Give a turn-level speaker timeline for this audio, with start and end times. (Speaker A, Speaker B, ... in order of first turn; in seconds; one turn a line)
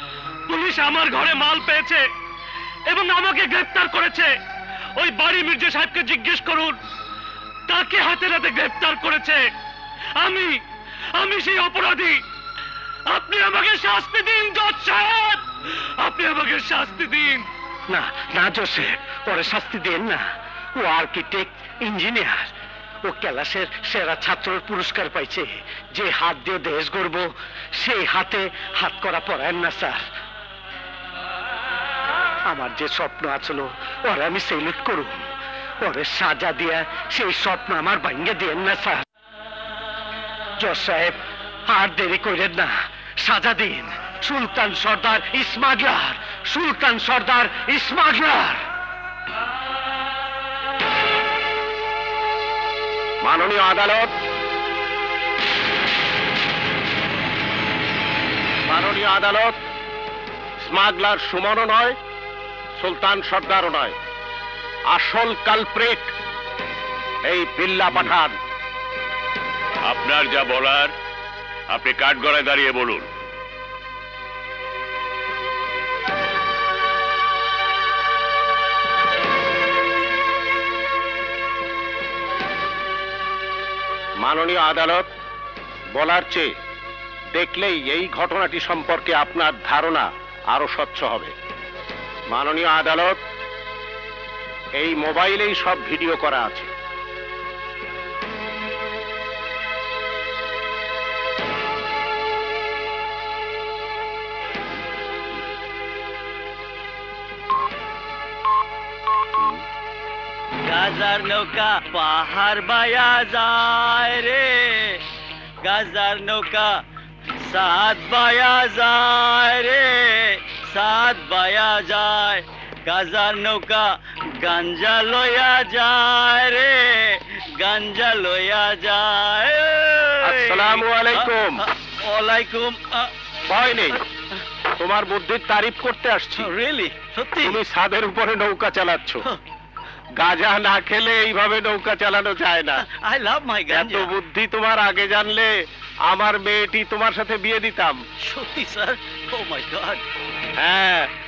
Speaker A: 0.5-2.0
Speaker A: 2.9-4.3
Speaker A: 5.0-6.8
Speaker A: 7.7-9.4
Speaker A: 10.2-10.6
Speaker A: 11.2-12.2
Speaker A: 13.1-15.4
Speaker A: 16.0-17.5
Speaker B: 17.9-20.2
Speaker B: 20.8-22.5
Speaker B: 23.1-30.0
Speaker B: 32.5-35.2
Speaker B: 35.8-39.0
Speaker B: 40.6-48.6
Speaker C: 53.2-54.1
Speaker C: 58.7-59.6
Speaker C: 60.6-62.0
Speaker C: 62.8-64.0
Speaker C: 64.9-66.1
Speaker C: 67.3-68.4
Speaker D: 69.9-70.9
Speaker D: 71.7-73.1
Speaker C: 84.2-85.1
Speaker C: 86.0-86.5
Speaker C: 87.3-91.3
Speaker C: 92.3-93.2
Speaker C: 94.8-96.7
Speaker E: 110.6-115.0
Speaker E: 115.6-116.8
Speaker E: 117.4-133.1
Speaker C: 130.3-131.6
Speaker C: 133.5-134.0
Speaker C: 134.8-136.5
Speaker E: 136.4-137.6
Speaker C: 137.4-139.2
Speaker C: 140.2-142.8
Speaker E: 142.8-144.1
Speaker C: 143.7-145.5
Speaker C: 146.1-148.0
Speaker E: 148.2-150.0
Speaker C: 150.6-151.1